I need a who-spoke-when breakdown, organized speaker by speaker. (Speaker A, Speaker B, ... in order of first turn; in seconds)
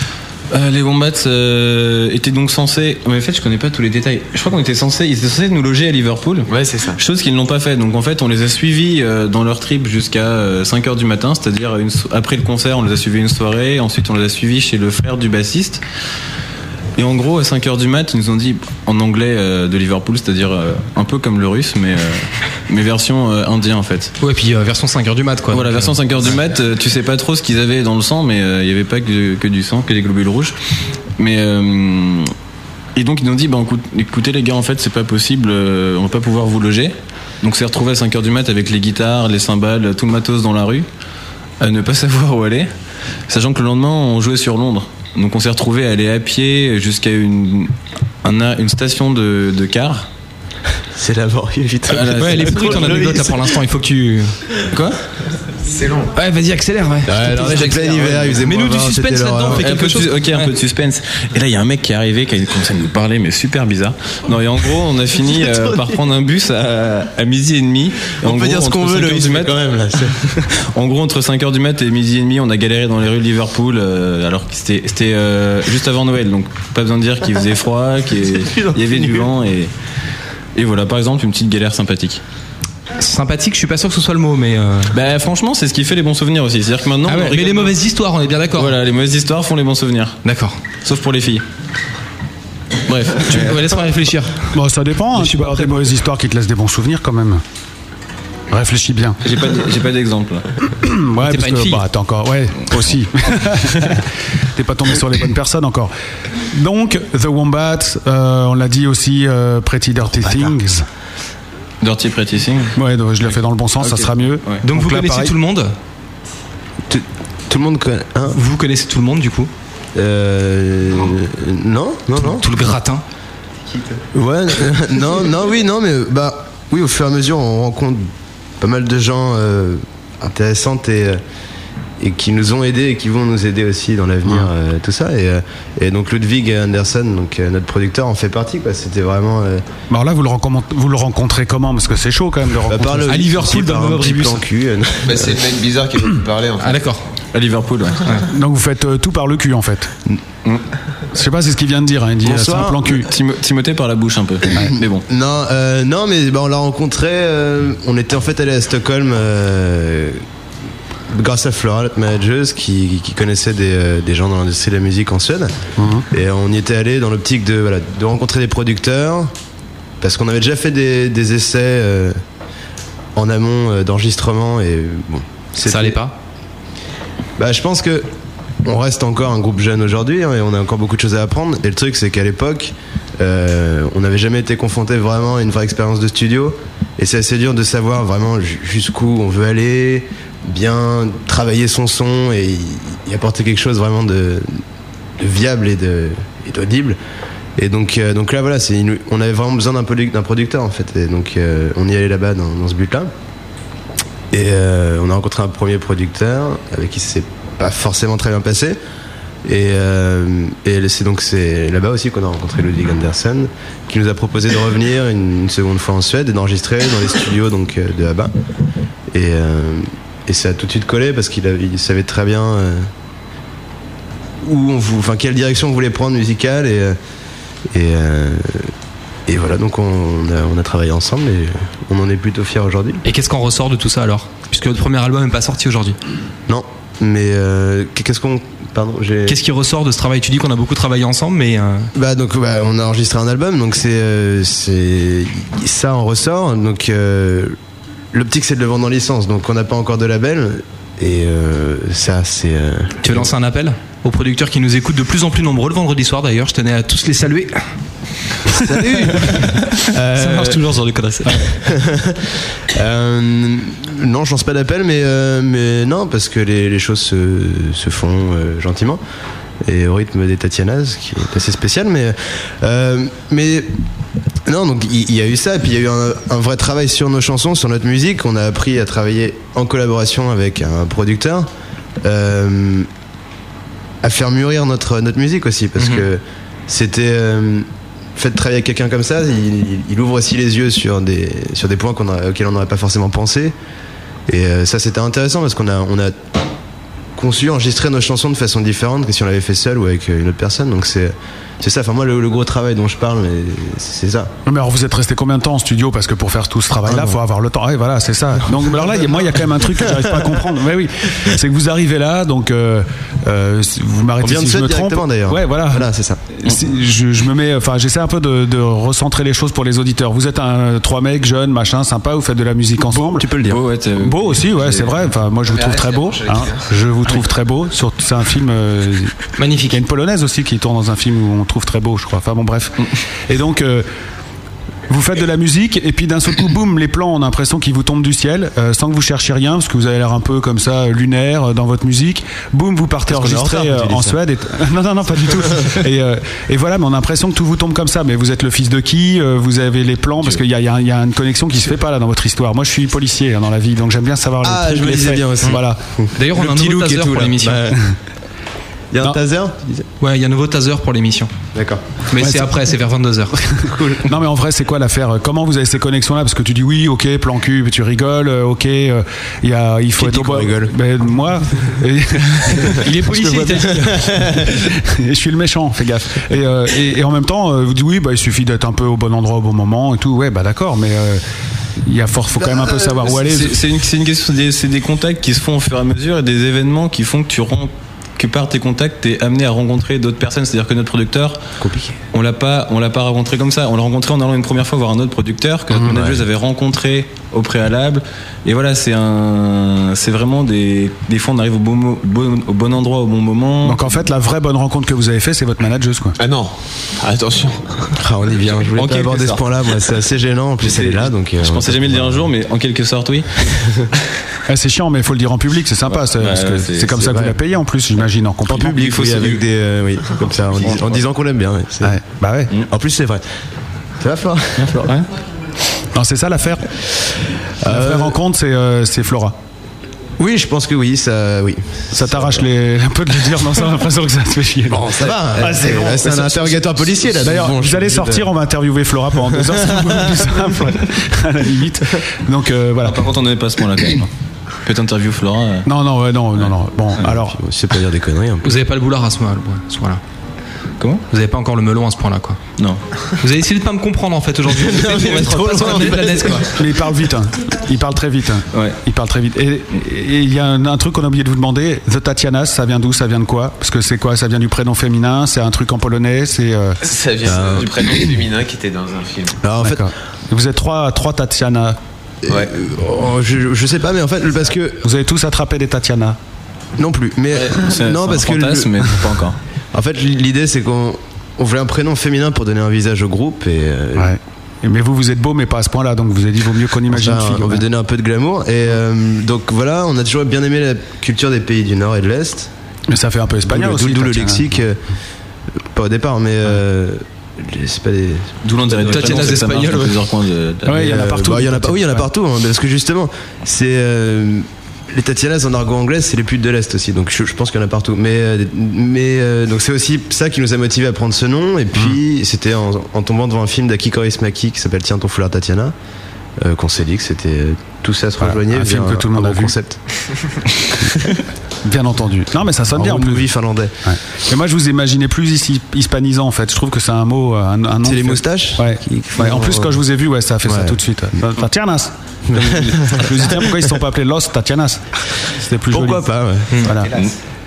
Speaker A: 0.5-15.8, 16.9-24.1, 25.5-30.5, 31.2-32.3, 33.0-40.9, 41.6-42.7, 43.3-47.7, 48.2-50.0, 51.9-53.1, 59.5-69.6, 70.5-79.7, 80.5-82.2, 84.9-87.7, 88.5-90.2, 90.8-91.4, 92.9-93.7, 99.2-100.4, 111.8-112.7, 113.8-114.6, 147.3-148.1, 152.8-155.0, 323.4-325.1, 383.0-391.4, 392.1-403.8, 408.7-409.4, 410.6-413.4, 415.9-417.2, 418.8-419.4, 420.6-421.0, 424.6-425.1, 442.8-444.1, 444.6-445.6, 477.3-479.4, 498.4-500.9
Speaker B: 6.5-7.0, 55.6-56.1, 57.2-58.4, 145.0-146.8, 325.5-326.6, 406.2-407.9, 466.8-469.4, 536.7-537.1
Speaker C: 24.2-25.9, 52.1-54.9, 56.1-60.5, 83.0-84.9, 87.1-88.7, 90.2-90.6, 93.2-94.4, 95.1-95.9, 101.2-101.8, 114.6-115.7, 118.3-119.5, 122.2-123.0, 143.1-144.4, 146.6-147.0, 175.6-176.1, 233.0-236.0, 239.2-241.9, 253.0-257.6, 258.5-261.5, 329.4-329.8, 356.1-357.7, 360.0-361.3, 362.1-363.4, 372.7-374.0, 448.4-450.0, 451.1-452.4, 453.2-456.5, 498.7-499.9
Speaker D: 51.0-53.5, 57.0-59.7, 65.3-65.8, 68.2-70.5, 78.5-79.3, 116.9-118.4, 119.9-122.5, 124.1-128.1, 128.6-131.2, 132.0-139.6, 142.7-145.4, 152.2-152.8, 155.1-160.2, 161.1-165.5, 166.1-169.3, 170.0-172.2, 173.2-176.0, 177.4-178.1, 178.6-194.6, 195.2-197.0, 197.6-203.1, 204.3-208.8, 209.4-218.3, 219.1-222.9, 224.4-227.0, 227.7-228.7, 229.3-233.0, 236.5-239.4, 241.9-247.6, 248.1-253.3, 259.9-260.6, 261.5-269.0, 269.6-273.7, 274.4-281.5, 282.0-282.9, 284.0-293.5, 294.3-296.1, 297.1-304.3, 306.9-307.2, 314.2-316.2, 322.9-323.6, 343.1-344.2, 354.4-357.8, 358.9-359.9, 361.5-361.8, 363.6-364.1, 370.0-370.7, 391.6-391.9, 408.0-412.3, 418.5-422.0, 422.7-423.2, 424.0-424.9, 427.6-428.1, 430.2-432.4, 434.8-438.3, 439.3-440.3, 447.0-448.5, 454.6-456.6, 467.2-468.0, 469.4-469.9, 472.2-474.8, 476.8-478.9, 479.7-484.1, 486.9-492.5, 493.4-494.8, 495.7-498.4, 500.7-515.7, 516.4-519.8, 522.7-523.7, 527.8-529.8, 530.5-530.8, 532.3-533.5, 535.7-536.7
Speaker E: 94.5-97.4, 98.5-99.2, 100.8-105.9, 106.5-110.8, 112.8-115.3, 139.9-143.3, 148.3-149.9, 151.1-153.1, 165.8-166.0, 304.4-323.3, 323.9-329.1, 329.7-333.9, 334.9-355.8, 362.2-362.5, 363.6-381.2, 381.8-383.6, 403.6-406.1, 414.5-419.0, 421.8-422.5, 425.9-426.7, 427.6-429.4, 431.9-436.6, 437.1-443.1, 445.6-447.4, 456.5-466.8, 469.6-471.8, 474.8-476.2, 483.9-487.6, 492.9-494.6, 500.6-502.1, 518.2-519.5, 521.6-523.3, 523.8-536.1, 536.6-536.9